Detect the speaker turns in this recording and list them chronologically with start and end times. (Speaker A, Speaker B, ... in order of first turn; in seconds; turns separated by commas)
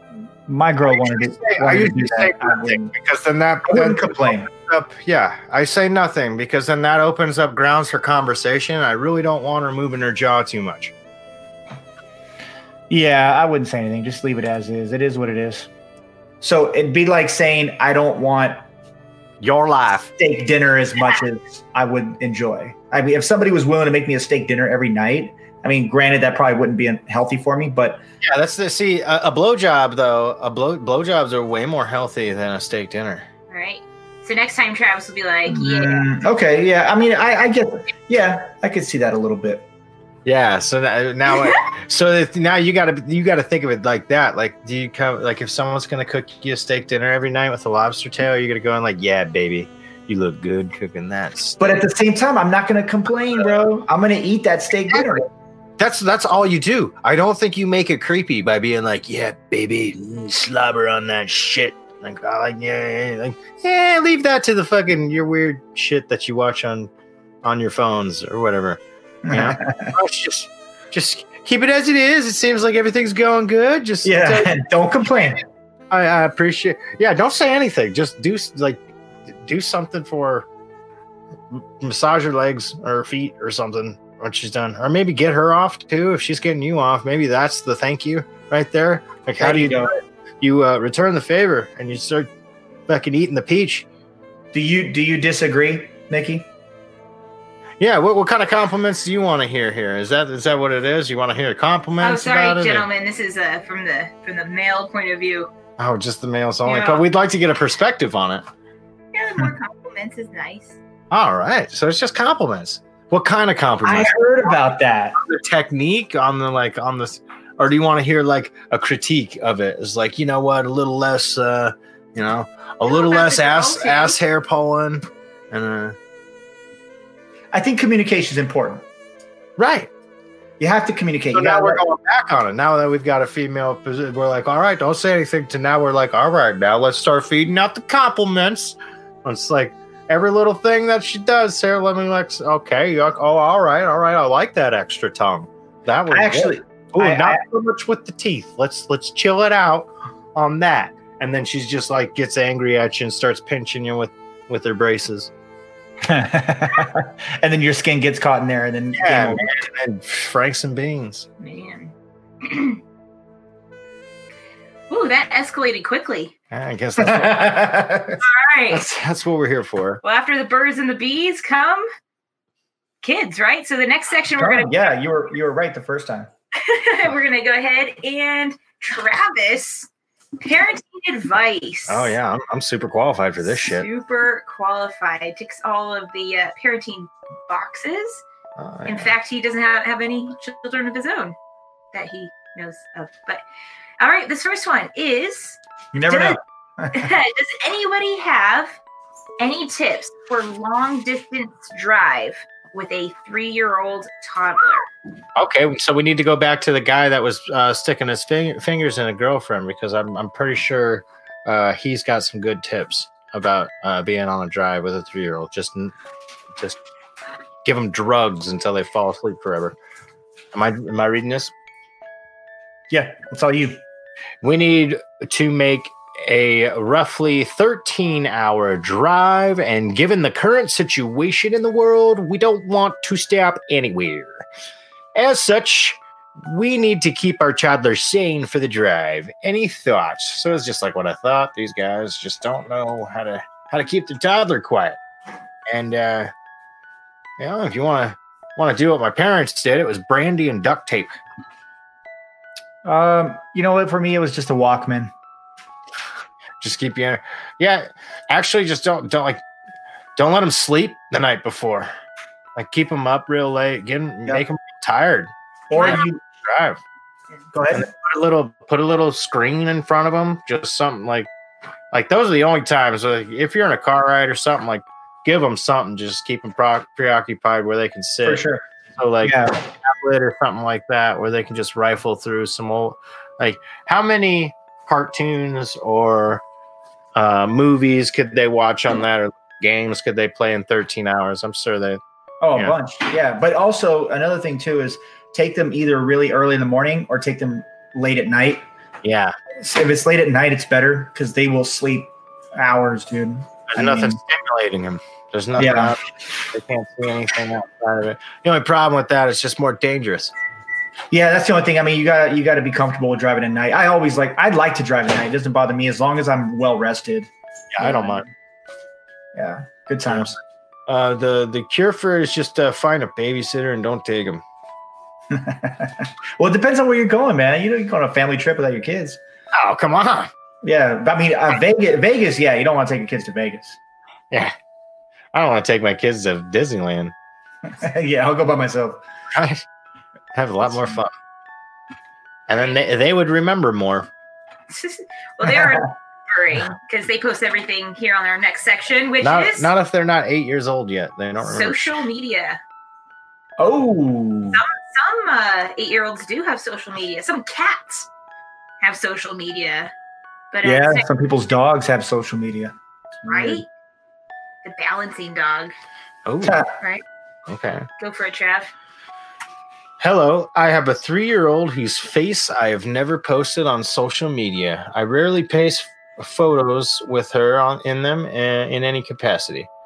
Speaker A: 0.5-2.9, Speaker B: 0.9-10.9, Speaker A: 3.6-4.5, Speaker A: 12.9-15.7, Speaker A: 16.4-18.6, Speaker B: 19.4-20.1, Speaker A: 20.2-28.0, Speaker B: 28.2-33.3, Speaker C: 33.5-36.1, Speaker A: 35.5-39.7, Speaker B: 40.2-51.9, Speaker C: 41.2-41.6, Speaker A: 51.6-55.3, Speaker B: 55.8-66.9, Speaker B: 67.4-74.6, Speaker A: 69.2-69.9, Speaker A: 74.0-75.4, Speaker B: 75.9-78.8, Speaker B: 79.4-80.5, Speaker B: 81.5-92.3, Speaker A: 89.4-89.9, Speaker B: 92.9-93.8, Speaker A: 94.5-96.5, Speaker B: 97.8-102.9, Speaker C: 102.0-105.5, Speaker B: 105.8-108.4, Speaker C: 106.7-107.0, Speaker C: 109.1-110.8, Speaker B: 111.1-114.2, Speaker A: 113.8-115.2, Speaker B: 115.2-126.0, Speaker C: 122.8-124.2, Speaker A: 127.5-128.8, Speaker B: 129.6-129.9, Speaker A: 130.6-131.8, Speaker B: 131.3-155.3, Speaker A: 146.1-147.4, Speaker A: 156.0-159.4, Speaker B: 158.9-161.3, Speaker C: 161.4-162.8, Speaker C: 164.9-166.3, Speaker B: 166.5-167.9, Speaker A: 167.0-168.2, Speaker C: 168.2-168.8, Speaker B: 168.7-170.0, Speaker C: 170.0-171.8, Speaker C: 173.0-174.7, Speaker A: 174.4-176.3, Speaker C: 176.5-179.9, Speaker C: 180.4-182.1, Speaker B: 181.9-183.9, Speaker C: 183.4-188.2, Speaker B: 188.6-189.1, Speaker C: 188.9-191.3, Speaker C: 191.9-193.4, Speaker C: 194.0-196.4, Speaker A: 195.9-197.1, Speaker C: 196.9-198.8, Speaker C: 199.4-204.9, Speaker B: 205.3-215.9, Speaker B: 217.6-219.8, Speaker B: 220.5-221.5, Speaker A: 222.9-223.8, Speaker B: 224.4-234.4, Speaker B: 235.1-245.0, Speaker B: 245.7-246.3, Speaker B: 247.4-251.2, Speaker A: 252.8-255.1, Speaker B: 256.6-259.4, Speaker B: 260.1-261.9, Speaker B: 262.6-266.8, Speaker A: 265.7-266.2, Speaker C: 265.7-266.0, Speaker A: 267.5-267.9, Speaker B: 267.7-271.3, Speaker B: 271.9-286.4, Speaker A: 278.2-278.6, Speaker A: 279.2-279.6, Speaker B: 287.1-292.0, Speaker A: 292.4-298.6, Speaker B: 299.0-299.3, Speaker A: 299.6-304.2, Speaker B: 303.7-310.3, Speaker A: 305.6-305.9, Speaker A: 311.1-318.2, Speaker B: 317.7-318.3, Speaker A: 319.3-320.4, Speaker B: 320.9-324.4, Speaker A: 325.3-329.2, Speaker B: 329.5-330.3, Speaker A: 330.6-333.8, Speaker B: 335.3-337.1, Speaker A: 337.7-339.0, Speaker B: 339.3-339.6, Speaker B: 340.3-341.1, Speaker A: 340.6-341.0, Speaker B: 342.5-344.1, Speaker C: 342.5-342.8, Speaker C: 344.7-349.7, Speaker A: 345.4-345.8, Speaker B: 349.2-352.0, Speaker C: 351.4-352.6, Speaker A: 353.6-354.6, Speaker C: 354.5-358.1, Speaker C: 358.8-359.9, Speaker C: 360.5-361.1, Speaker A: 360.6-363.6, Speaker C: 363.3-363.7, Speaker C: 364.6-365.7, Speaker B: 366.2-366.6, Speaker A: 366.4-366.7, Speaker B: 367.5-367.9, Speaker C: 368.0-368.7, Speaker B: 370.0-379.7